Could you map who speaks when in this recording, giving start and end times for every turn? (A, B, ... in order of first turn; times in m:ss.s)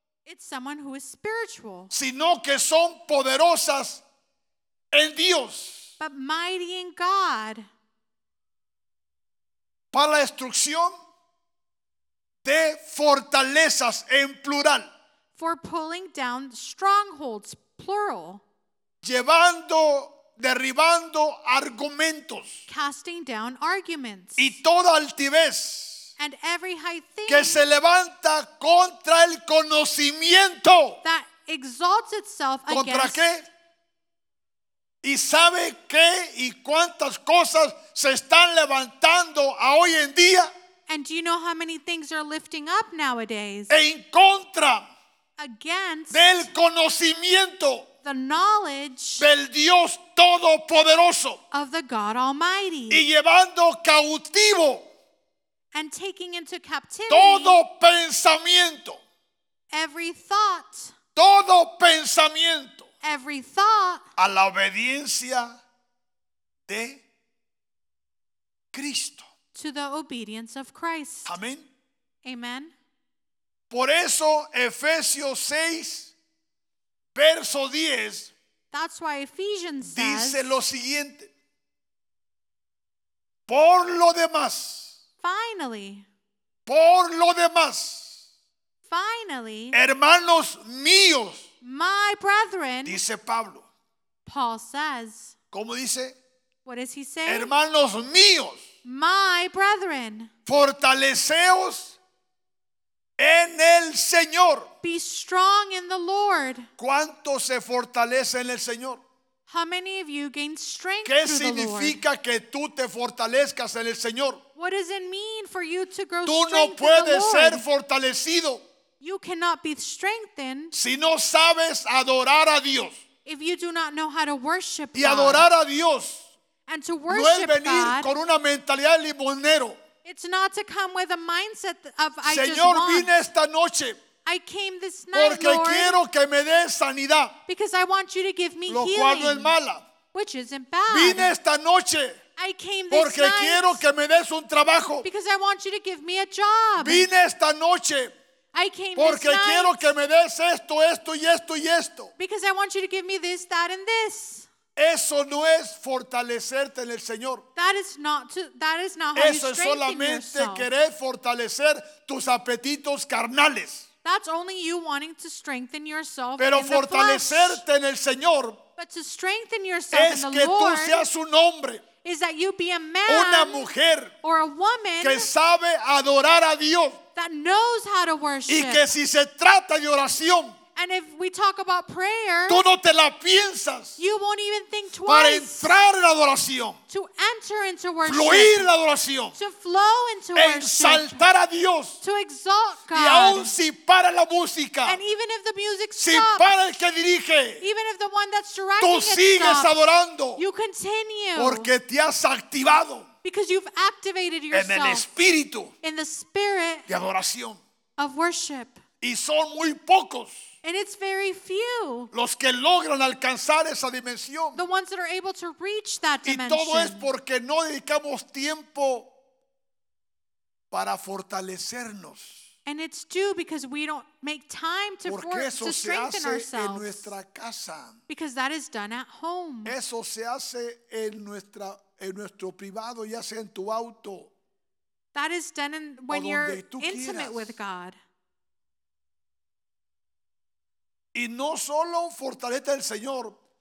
0:00.2-0:01.9 A
0:01.9-0:04.0 B
0:04.9-0:05.9 B
0:06.0-0:07.7 A
0:09.9-0:11.0 B
0:12.4-0:14.9 B
0:15.4-0:18.4 A
0:19.0-0:22.7 B
0:22.7-0:24.6 A
0:24.4-0:26.1 B
0:26.2-0:27.7 A
0:27.3-0:31.0 B
0:31.0-0:33.3 A
0:32.7-0:33.5 B
0:35.0-0:40.5 B
0:40.9-0:43.7 A
0:43.7-0:44.9 B
0:45.4-0:46.5 A
0:46.1-0:47.9 B
0:48.0-0:49.3 A
0:49.2-0:51.4 B
0:51.5-0:53.1 A
0:52.9-0:54.9 B
0:55.7-0:57.6 A
0:57.1-0:59.0 B
0:59.7-1:01.0 A
1:01.2-1:02.9 B
1:03.0-1:04.0 A
1:04.2-1:05.6 B
1:06.7-1:07.1 B
1:08.7-1:09.3 B
1:09.5-1:11.3 A
1:11.3-1:11.7 B
1:12.2-1:12.7 A
1:13.7-1:16.2 B
1:17.2-1:18.3 B
1:18.7-1:20.6 A
1:19.8-1:21.3 B
1:23.5-1:25.0 B
1:25.2-1:26.1 A
1:26.7-1:28.2 B
1:28.8-1:29.8 A
1:29.7-1:31.5 B
1:31.6-1:33.0 A
1:32.8-1:33.7 B
1:34.2-1:35.3 A
1:35.5-1:36.2 B
1:36.6-1:37.5 A
1:37.3-1:38.7 B
1:38.8-1:40.3 A
1:40.5-1:42.0 B
1:43.2-1:44.7 B
1:44.8-1:46.7 A
1:46.8-1:49.0 B
1:49.5-1:52.0 A
1:51.0-1:54.4 B
1:54.6-1:57.7 A
1:56.2-1:58.6 B
1:59.0-2:00.8 A
2:00.7-2:03.0 B
2:03.2-2:05.5 A
2:05.0-2:06.3 B
2:06.7-2:08.1 A
2:07.1-2:09.8 B
2:10.0-2:13.2 A
2:12.2-2:14.0 B
2:14.2-2:16.0 A
2:15.1-2:17.4 B
2:17.5-2:19.6 A
2:18.7-2:19.9 B
2:20.1-2:21.3 A
2:20.9-2:22.2 B
2:22.4-2:23.8 A
2:22.9-2:25.1 B
2:25.0-2:27.1 A
2:26.8-2:28.1 B
2:28.5-2:29.9 A
2:29.0-2:32.1 B
2:32.2-2:34.5 A
2:34.8-2:37.4 B
2:37.6-2:40.7 A
2:39.2-2:43.9 B
2:44.0-2:47.6 A
2:46.4-2:48.6 B
2:48.8-2:51.1 A
2:49.9-2:51.8 B
2:52.0-2:53.7 A
2:53.1-2:54.1 B
2:54.2-2:55.3 A
2:55.0-2:57.0 B
2:57.2-2:58.9 A
2:58.5-3:00.6 B
3:00.8-3:02.6 A
3:02.5-3:04.0 B
3:04.0-3:05.8 A
3:05.0-3:06.8 B
3:06.9-3:08.7 A
3:08.0-3:09.4 B
3:09.3-3:11.2 A
3:10.4-3:12.0 B
3:12.0-3:13.5 A
3:12.9-3:15.0 B
3:14.9-3:16.5 A
3:16.0-3:17.7 B
3:17.6-3:21.7 A
3:18.8-3:20.4 B
3:21.4-3:23.1 B
3:23.2-3:25.1 A
3:24.5-3:25.7 B
3:25.8-3:26.9 A
3:26.9-3:27.6 B
3:28.0-3:28.8 A
3:29.0-3:30.5 B
3:30.6-3:32.1 A
3:32.1-3:34.6 B
3:34.5-3:37.1 A
3:36.2-3:39.1 B
3:40.7-3:42.5 B
3:42.7-3:47.1 A
3:45.0-3:48.0 B
3:48.1-3:49.8 A
3:49.6-3:54.3 B
3:55.1-3:58.0 A
3:56.1-3:57.6 B
4:01.1-4:03.4 B